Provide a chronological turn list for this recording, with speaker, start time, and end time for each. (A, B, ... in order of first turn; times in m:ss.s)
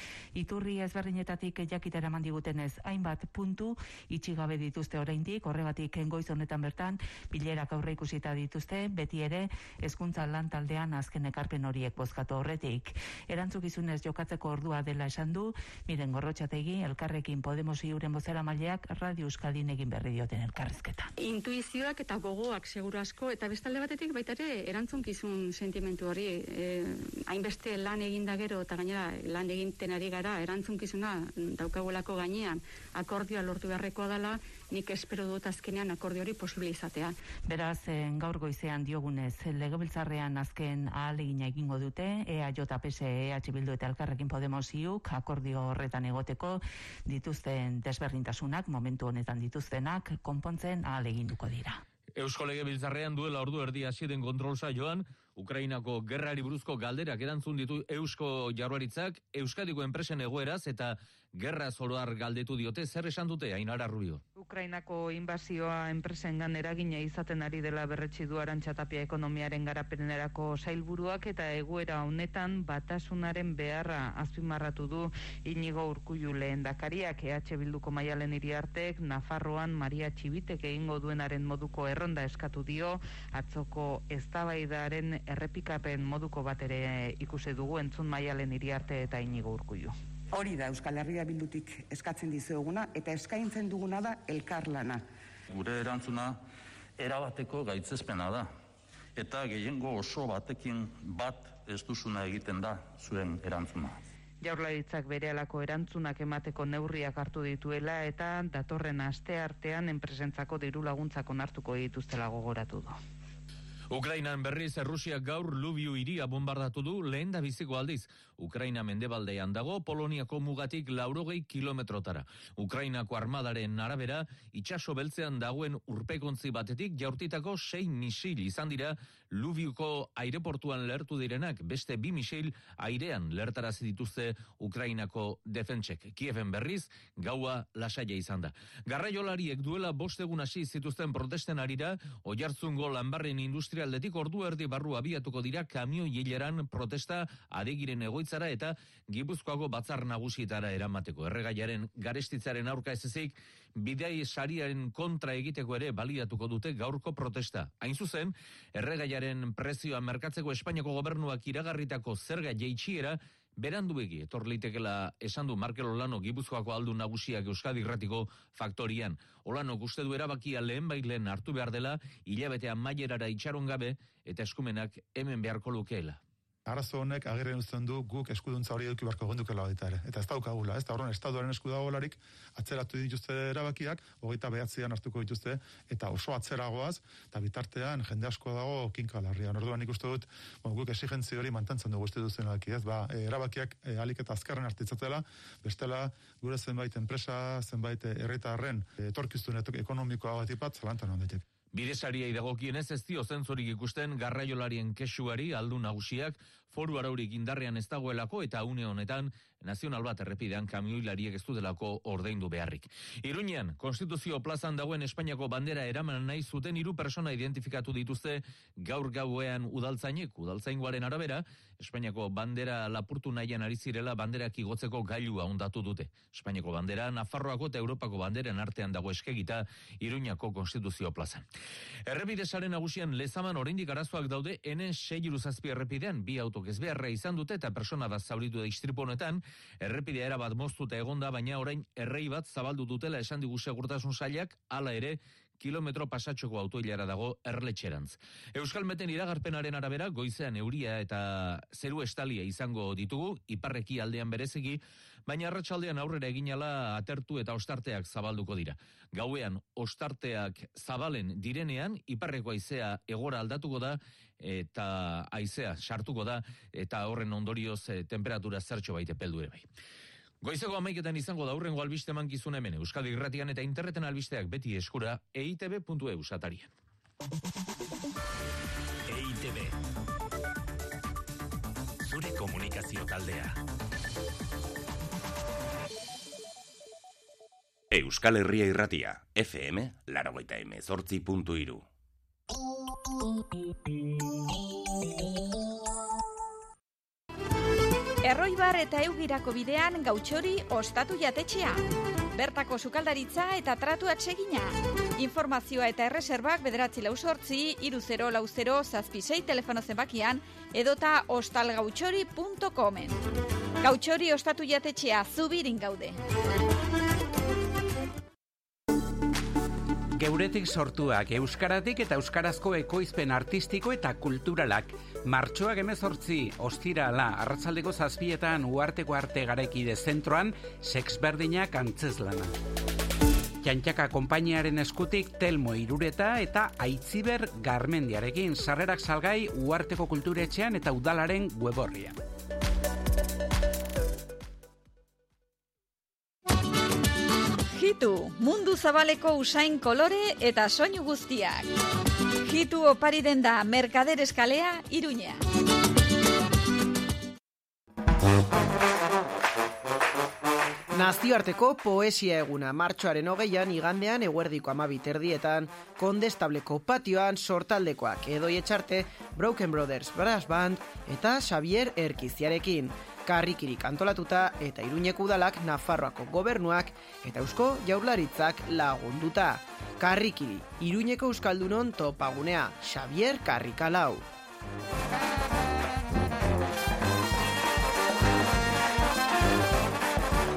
0:00.4-0:21.1 A
0:21.2-0:37.3 B
0:37.4-0:51.8 A
0:52.2-1:04.2 C
1:04.4-1:29.9 A
1:30.3-1:35.1 D
1:35.5-1:36.4 E
1:37.0-1:38.5 E
1:39.2-1:44.0 E
1:44.4-1:52.9 A
1:53.9-2:56.2 C
2:56.7-3:21.4 F
3:21.7-3:51.5 C
3:52.1-4:29.7 C
4:30.4-4:36.7 C
4:39.1-4:39.7 G
4:42.1-4:43.6 G
4:47.9-4:51.9 G
4:58.2-5:13.2 H
5:13.8-5:16.2 H
5:20.2-5:32.5 I
5:33.6-5:42.2 I
5:47.7-5:51.7 H
5:52.4-5:55.4 H
6:00.9-6:24.3 J